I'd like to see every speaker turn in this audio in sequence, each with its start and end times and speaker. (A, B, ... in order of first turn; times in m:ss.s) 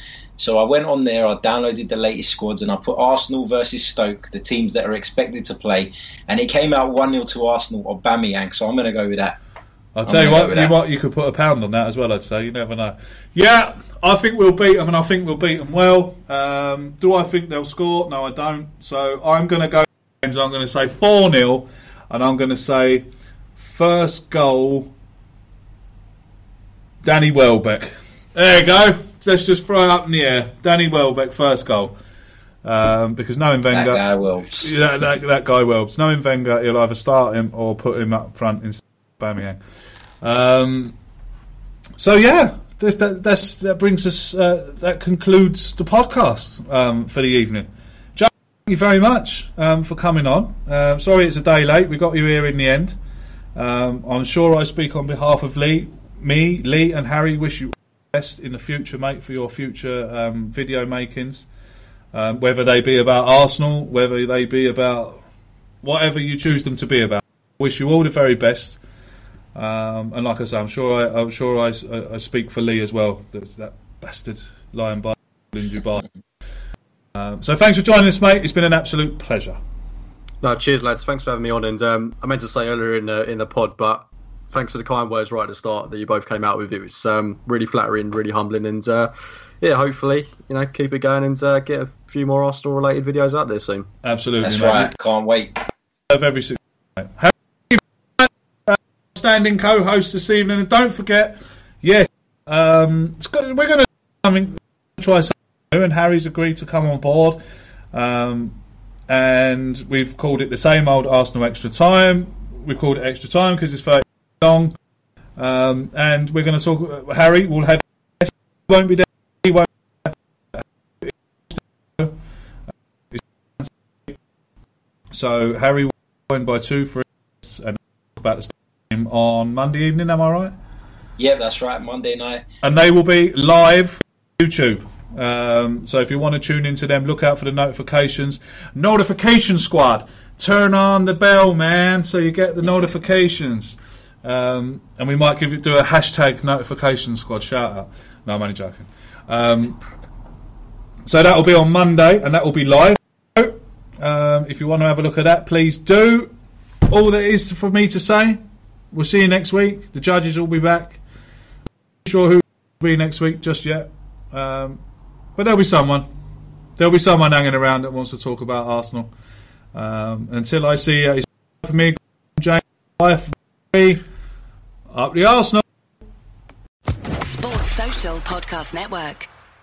0:00.4-0:09.4 A
0:09.9-0:23.0 B
0:10.0-0:10.7 A
0:23.6-0:24.9 B
0:27.0-0:31.9 B
0:32.6-0:34.0 B
0:33.7-0:34.7 A
0:34.6-0:39.6 B
0:40.2-0:40.9 B
0:42.0-0:53.0 B
0:53.5-1:01.5 B
1:02.1-1:05.2 B
1:05.8-1:08.8 B
1:09.5-1:16.0 B
1:17.1-1:19.6 B
1:20.4-1:33.9 C
1:34.0-1:34.9 B
1:34.4-1:35.6 A
1:36.1-1:47.4 B
1:47.9-1:48.6 B
1:49.1-1:54.7 B
1:55.4-2:02.2 B
2:03.1-2:04.1 B
2:05.1-2:10.5 B
2:11.2-2:12.4 A
2:12.6-2:29.8 B
2:31.0-2:36.3 B
2:36.9-2:38.4 B
2:38.9-2:41.0 B
2:42.0-2:44.8 B
2:45.4-2:46.1 B
2:46.8-2:49.1 B
2:49.7-2:54.0 B
2:54.9-2:55.6 B
2:57.2-2:59.3 D